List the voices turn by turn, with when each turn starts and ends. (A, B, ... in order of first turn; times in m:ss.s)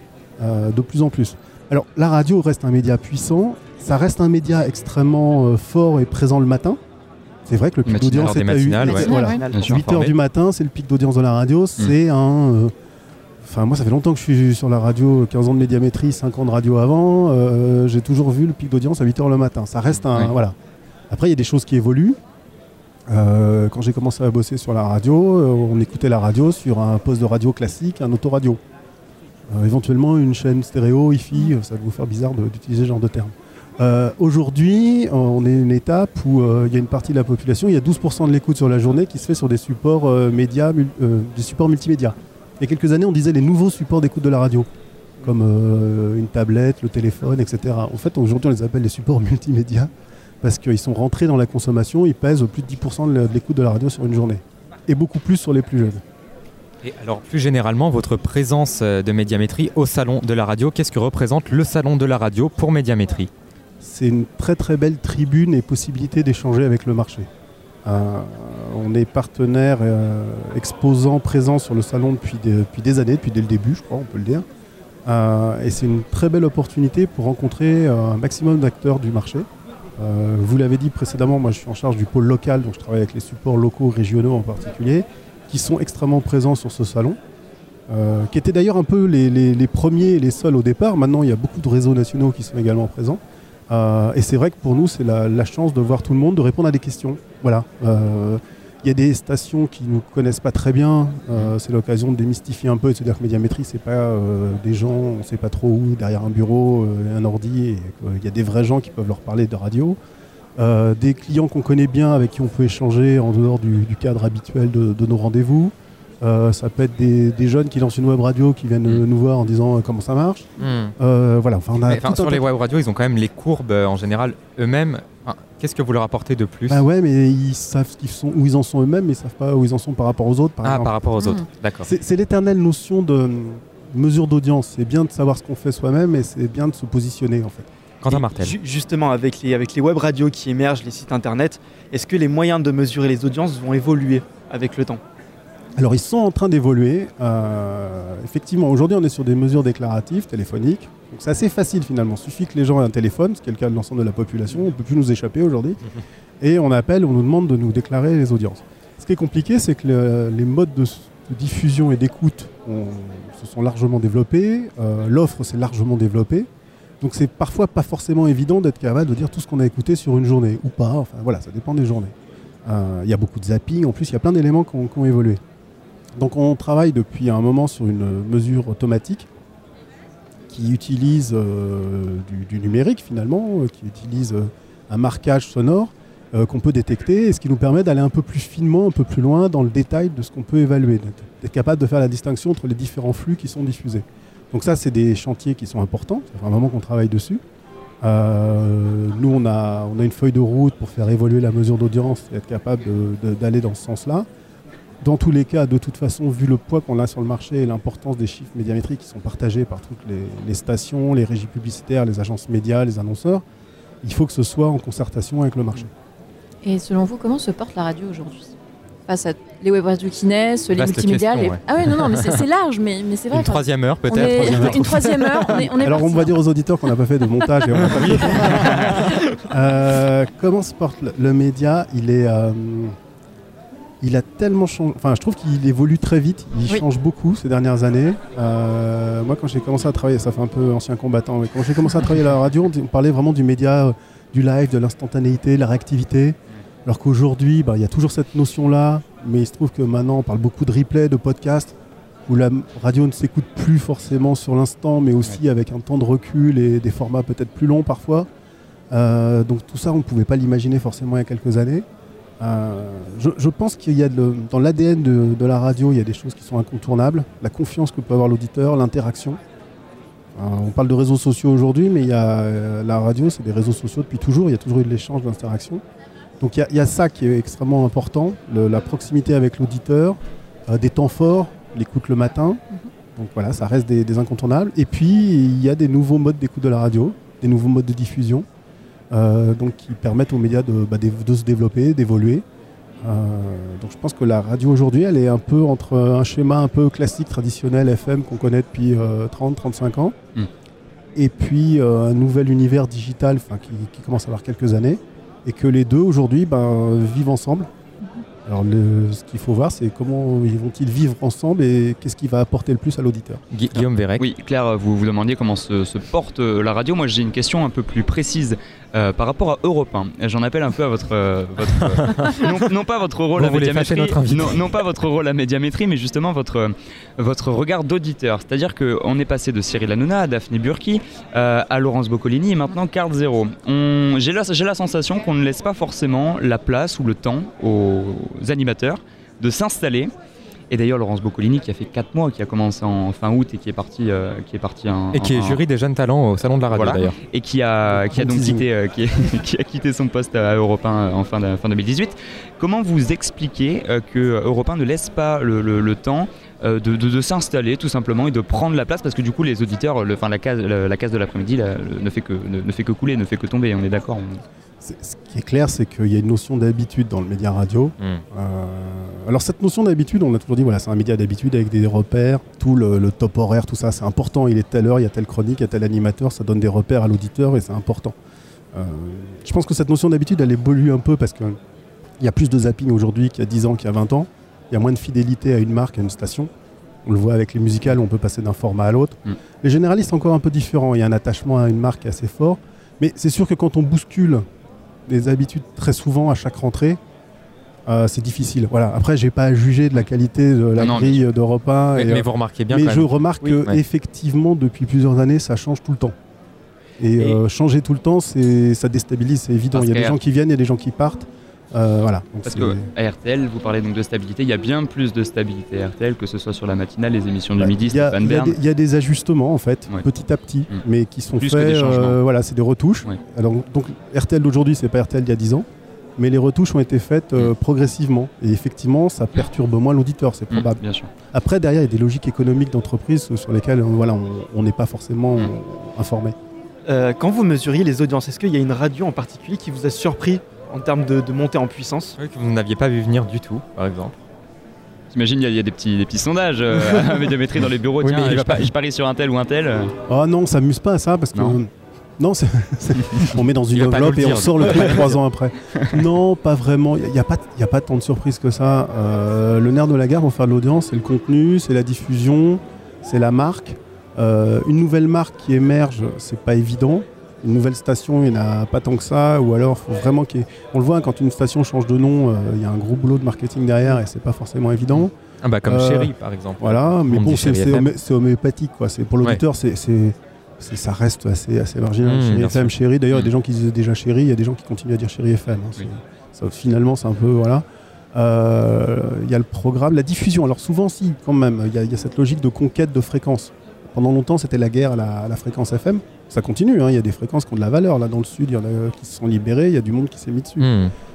0:00.4-0:06.8 A
0:07.5-0:12.7 A
0:07.9-0:08.3 B
0:08.2-0:09.2 C
0:08.8-0:09.7 D
0:09.0-0:09.4 E
0:09.5-0:09.8 B
0:09.7-0:10.1 C
0:13.4-0:20.6 A
0:20.1-0:20.4 C
0:21.1-0:22.2 A
0:23.1-0:28.6 A
0:29.5-0:44.7 A
0:45.2-0:49.9 A
0:50.4-0:56.0 A
0:56.8-1:03.3 C
1:03.8-1:07.3 A
1:07.8-1:14.5 A
1:15.0-1:19.5 A
1:20.0-1:27.2 A
1:27.9-1:50.0 A
1:50.6-2:02.5 A
2:00.6-2:01.0 C
2:01.9-2:06.8 C
2:06.7-2:11.0 A
2:10.6-2:11.9 C
2:11.2-2:11.5 E
2:11.8-2:17.7 A
2:18.0-2:18.6 C
2:18.0-2:25.0 D
2:25.8-2:46.5 A
2:47.0-2:52.1 A
2:52.6-2:55.4 A
2:56.2-2:59.3 A
3:00.5-3:17.4 A
3:18.0-3:24.3 A
3:25.0-3:33.4 A
3:34.0-3:35.9 A
3:36.6-3:38.5 E
3:39.1-3:46.5 E
3:40.7-3:42.4 C
3:43.3-3:45.4 C
3:44.3-3:44.8 A
3:45.8-3:53.0 A
3:47.8-3:49.2 C
3:48.8-3:49.2 D
3:54.0-4:11.8 A
4:12.3-4:18.3 A
4:18.9-4:21.9 A
4:22.4-4:29.4 A
4:30.4-4:35.8 A
4:36.4-4:48.5 A
4:49.1-4:52.4 A
4:53.0-5:00.2 A
5:01.2-5:07.7 A
5:08.5-5:13.4 A
5:13.5-5:14.2 C
5:13.7-5:40.1 B
5:22.0-5:22.5 C
5:23.4-5:24.8 C
5:40.7-5:45.6 B
5:45.1-5:47.2 C
5:46.7-6:04.4 B
5:47.9-5:48.7 A
6:04.8-6:18.2 A
6:18.7-6:21.6 A
6:22.2-6:26.5 A
6:27.0-6:34.4 A
6:35.1-6:37.0 A
6:37.9-6:46.2 A
6:40.8-6:41.3 B
6:42.0-6:43.8 C
6:47.0-6:52.9 A
6:49.7-6:50.2 B
6:52.5-6:58.6 B
6:57.6-7:16.4 A
7:01.4-7:02.2 B
7:10.5-7:11.1 B
7:16.9-7:22.2 D
7:22.2-7:24.1 C
7:25.1-7:29.9 B
7:28.0-7:28.7 C
7:30.1-8:20.7 A
7:33.7-7:35.2 C
7:54.9-7:57.9 C
8:02.0-8:03.3 C
8:20.6-8:20.9 C